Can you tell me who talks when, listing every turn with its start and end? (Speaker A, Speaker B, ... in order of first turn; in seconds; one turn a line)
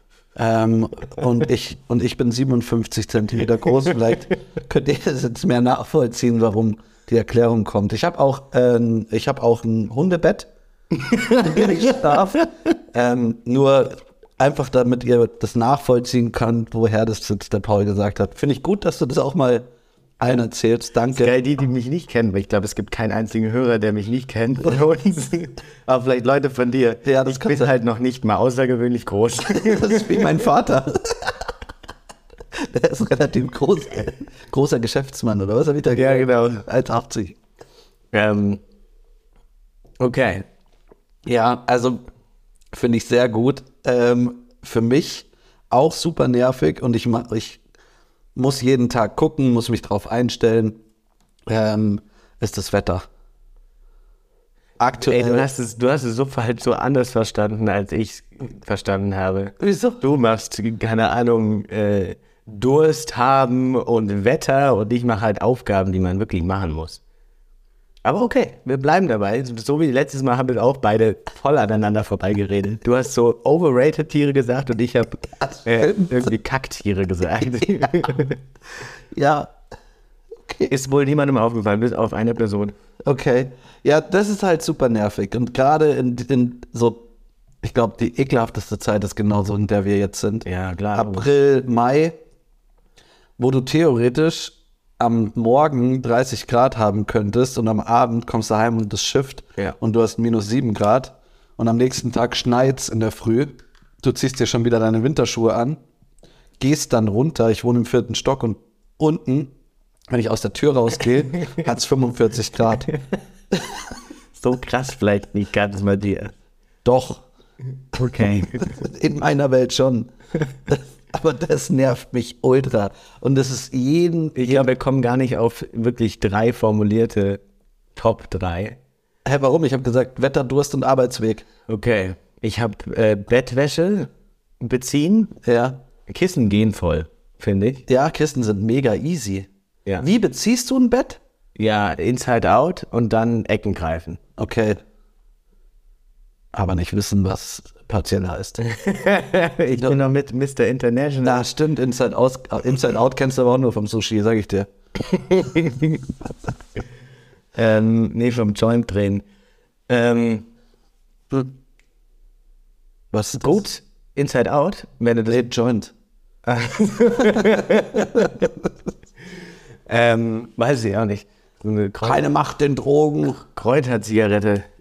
Speaker A: 0.4-10.5
Speaker B: 11.1-11.6
Speaker A: 11.2-19.7
Speaker A: 20.2-21.3
Speaker B: 21.1-30.3
Speaker A: 27.1-27.7
Speaker A: 29.6-31.4
Speaker A: 32.5-37.4
Speaker B: 35.9-36.6
Speaker B: 38.1-38.6
Speaker B: 40.0-40.5
Speaker A: 41.3-42.0
Speaker A: 42.7-47.6
Speaker A: 48.4-50.8
Speaker A: 51.5-53.1
Speaker A: 54.8-55.5
Speaker B: 55.0-67.0
Speaker A: 59.6-60.0
Speaker B: 68.0-78.4
Speaker A: 75.6-76.3
Speaker A: 79.1-79.5
Speaker B: 80.7-82.8
Speaker A: 83.0-87.0
Speaker A: 87.6-92.2
Speaker B: 90.5-91.3
Speaker A: 93.4-105.8
Speaker A: 106.6-109.5
Speaker A: 110.1-112.9
Speaker B: 114.3-116.3
Speaker A: 116.8-117.3
Speaker B: 117.9-118.8
Speaker A: 118.6-120.1
Speaker A: 120.7-124.7
Speaker B: 124.4-127.4
Speaker B: 128.0-128.8
Speaker A: 129.2-131.5
Speaker B: 131.7-135.4
Speaker A: 135.4-135.8
Speaker B: 136.1-137.8
Speaker A: 137.9-139.5
Speaker A: 140.0-141.2
Speaker B: 141.6-144.2
Speaker A: 144.4-144.8
Speaker A: 146.5-148.6
Speaker B: 148.6-151.4
Speaker A: 151.2-154.7
Speaker B: 155.1-156.0
Speaker B: 157.6-159.2
Speaker B: 159.9-160.5
Speaker A: 163.1-163.6
Speaker B: 163.3-165.5
Speaker A: 165.3-165.9
Speaker B: 166.5-168.4
Speaker A: 167.4-168.5
Speaker B: 169.9-172.3
Speaker A: 172.0-173.4
Speaker B: 173.4-174.7